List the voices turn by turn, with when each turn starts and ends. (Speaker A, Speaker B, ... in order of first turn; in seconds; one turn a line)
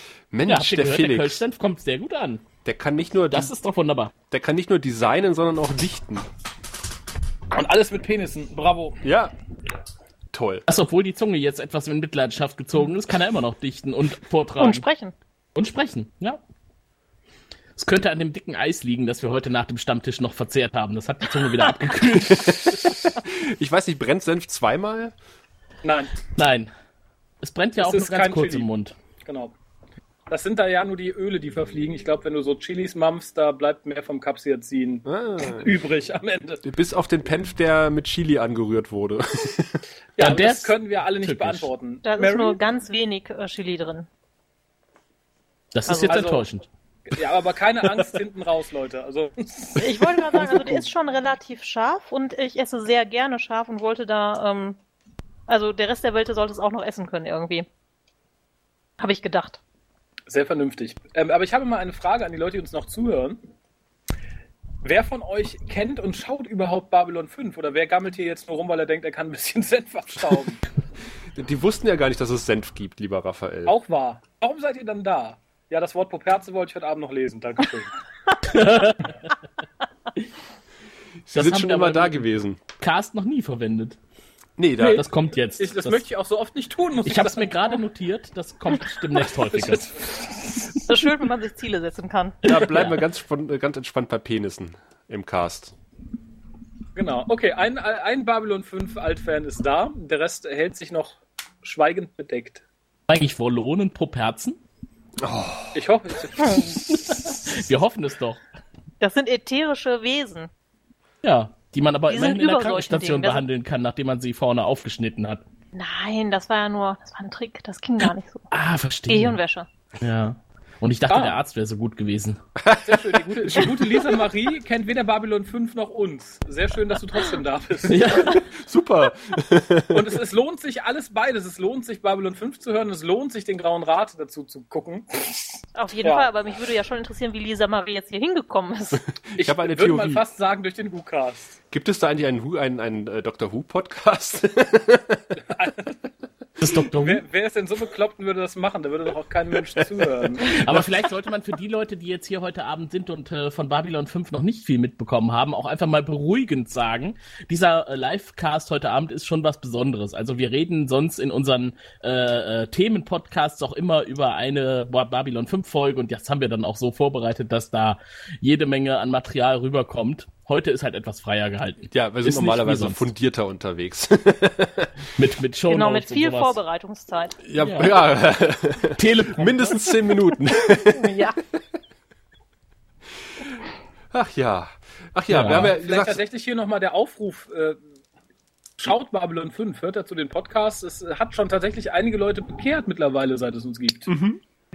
Speaker A: 0.3-1.4
Speaker B: 0.5-2.4
Speaker A: 2.6-3.5
Speaker B: 3.3-4.1
Speaker A: 4.3-6.2
Speaker C: 7.5-9.0
Speaker A: 9.0-9.3
Speaker A: 10.3-10.6
Speaker B: 10.7-14.8
Speaker D: 14.6-15.1
Speaker B: 15.5-16.4
Speaker B: 17.8-22.9
Speaker A: 22.2-25.1
Speaker C: 25.8-26.2
Speaker B: 26.4-26.7
Speaker B: 27.4-28.9
Speaker C: 27.8-28.7
Speaker C: 29.2-29.5
Speaker C: 30.3-36.6
Speaker A: 35.0-35.7
Speaker A: 36.6-39.8
Speaker C: 40.2-42.6
Speaker B: 40.2-41.7
Speaker D: 42.0-44.1
Speaker B: 45.7-46.6
Speaker D: 45.9-46.1
Speaker C: 46.0-46.5
Speaker C: 47.1-50.8
Speaker D: 49.8-54.8
Speaker D: 55.5-57.7
Speaker D: 59.0-59.6
Speaker C: 60.3-63.4
Speaker C: 64.8-70.6
Speaker A: 71.3-73.8
Speaker C: 73.7-77.9
Speaker B: 78.5-79.1
Speaker A: 81.2-82.6
Speaker B: 81.3-82.2
Speaker B: 82.8-84.0
Speaker A: 84.6-85.1
Speaker B: 84.8-86.0
Speaker C: 85.6-87.7
Speaker B: 87.0-90.0
Speaker C: 89.4-90.7
Speaker D: 90.8-92.4
Speaker A: 92.4-95.7
Speaker B: 92.4-93.0
Speaker C: 96.9-102.6
Speaker B: 103.1-104.6
Speaker A: 105.2-105.8
Speaker C: 105.7-107.3
Speaker B: 107.0-108.4
Speaker D: 109.0-110.5
Speaker B: 111.2-115.4
Speaker D: 112.1-113.4
Speaker D: 115.7-118.5
Speaker B: 118.5-119.4
Speaker D: 119.1-119.7
Speaker B: 120.0-122.4
Speaker C: 121.1-121.4
Speaker A: 122.6-124.1
Speaker C: 122.8-128.3
Speaker B: 127.9-128.4
Speaker A: 128.3-130.2
Speaker C: 129.9-136.3
Speaker D: 135.7-139.0
Speaker A: 139.0-140.2
Speaker C: 139.4-141.6
Speaker A: 141.7-145.3
Speaker C: 145.4-145.9
Speaker B: 146.6-147.2
Speaker C: 147.0-150.6
Speaker B: 150.5-173.1
Speaker A: 171.9-174.9
Speaker B: 175.2-176.6
Speaker D: 175.7-177.3
Speaker A: 177.4-181.3
Speaker B: 177.6-178.0
Speaker B: 179.0-179.8
Speaker D: 180.9-181.4
Speaker A: 184.1-186.2
Speaker B: 185.3-185.7
Speaker C: 185.7-187.8
Speaker C: 188.8-194.1
Speaker A: 194.1-194.4